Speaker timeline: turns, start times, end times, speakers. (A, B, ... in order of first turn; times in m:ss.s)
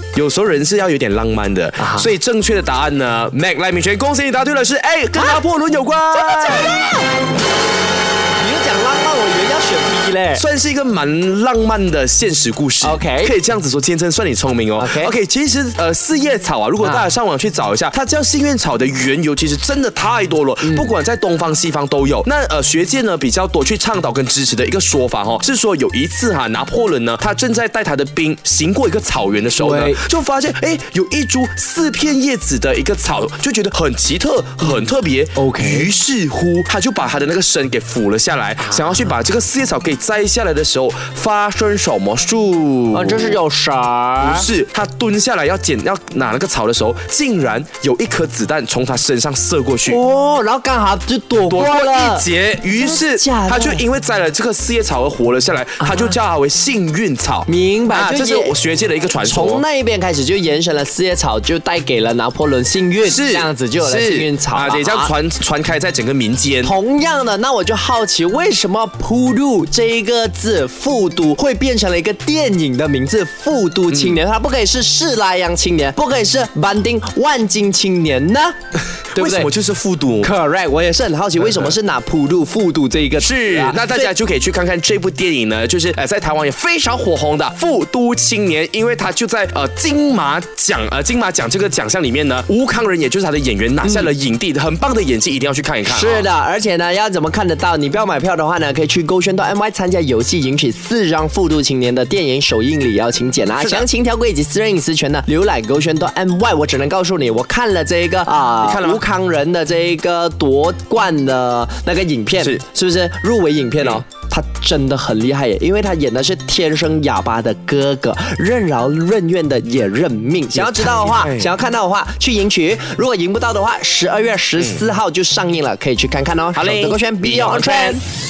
0:00.2-0:06.8 A
0:01.8-0:02.1 B
0:05.2-0:05.4 B
0:06.1-0:07.1 B
0:08.4-0:10.4 B
0:10.3-0:43.4 A
0:12.8-0:13.3 B
0:14.8-0:15.1 B
0:20.6-0:20.9 B
0:29.6-0:30.0 B
0:35.4-0:35.9 B
0:38.6-0:39.1 B
0:42.9-0:44.5 B
0:44.2-0:50.0 A
0:49.9-0:53.8 B
0:51.5-0:59.6 A
0:55.8-0:56.2 B
0:57.5-0:58.6 B
0:59.2-1:05.1 B
1:03.0-1:06.7 A
1:06.6-1:18.6 B
1:13.9-1:14.2 A
1:19.1-1:20.3 A
1:19.2-1:19.5 B
1:20.2-1:24.1 B
1:21.4-1:21.7 A
1:23.2-1:36.3 A
1:33.8-1:34.1 B
1:35.9-2:08.0 B
1:43.6-1:43.9 A
1:48.6-1:49.0 A
2:00.5-2:01.5 A
2:04.6-2:04.9 A
2:06.5-2:08.0 A